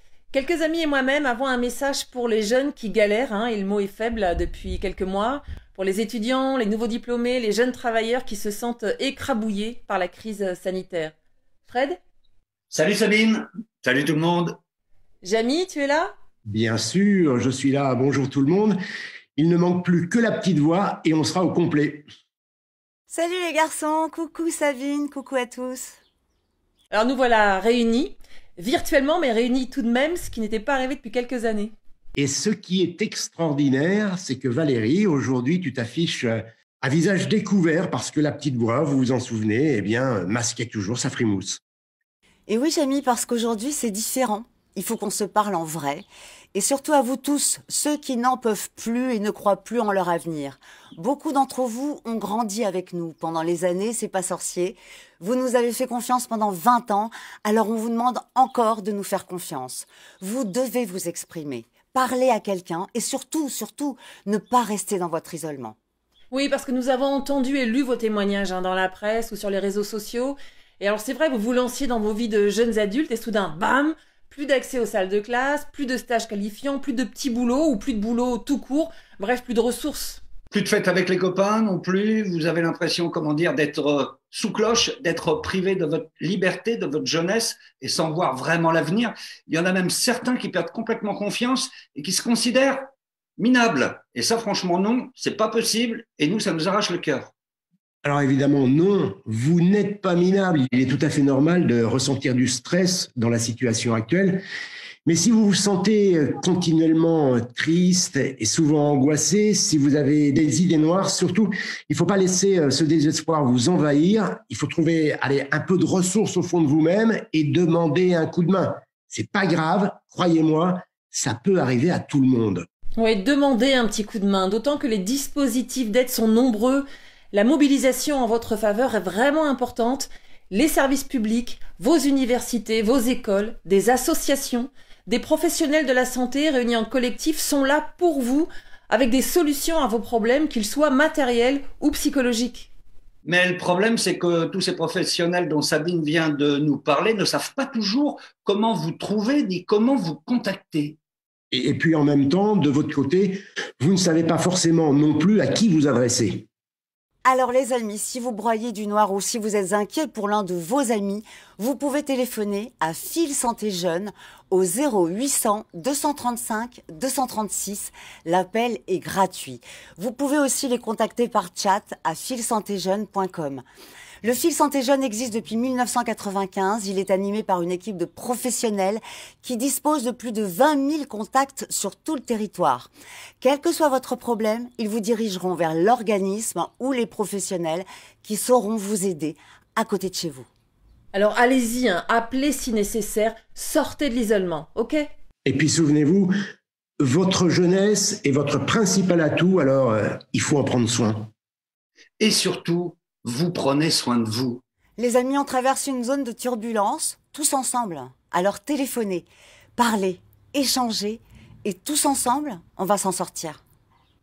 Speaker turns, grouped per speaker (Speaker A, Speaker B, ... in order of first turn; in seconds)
Speaker A: 0.3-11.1, 11.7-12.0, 15.2-16.1, 26.9-31.7, 66.3-80.2, 123.0-142.7, 191.1-195.1
Speaker B: 12.7-14.6, 80.5-92.9, 93.4-97.3, 143.2-151.0, 202.2-204.6
Speaker C: 16.5-18.8, 19.4-22.1, 32.2-41.6, 98.0-104.4, 105.0-122.7, 151.5-156.5, 195.4-196.3, 197.0-201.3
Speaker D: 23.1-26.0, 42.5-65.8, 157.2-173.6, 174.2-190.5, 205.0-213.6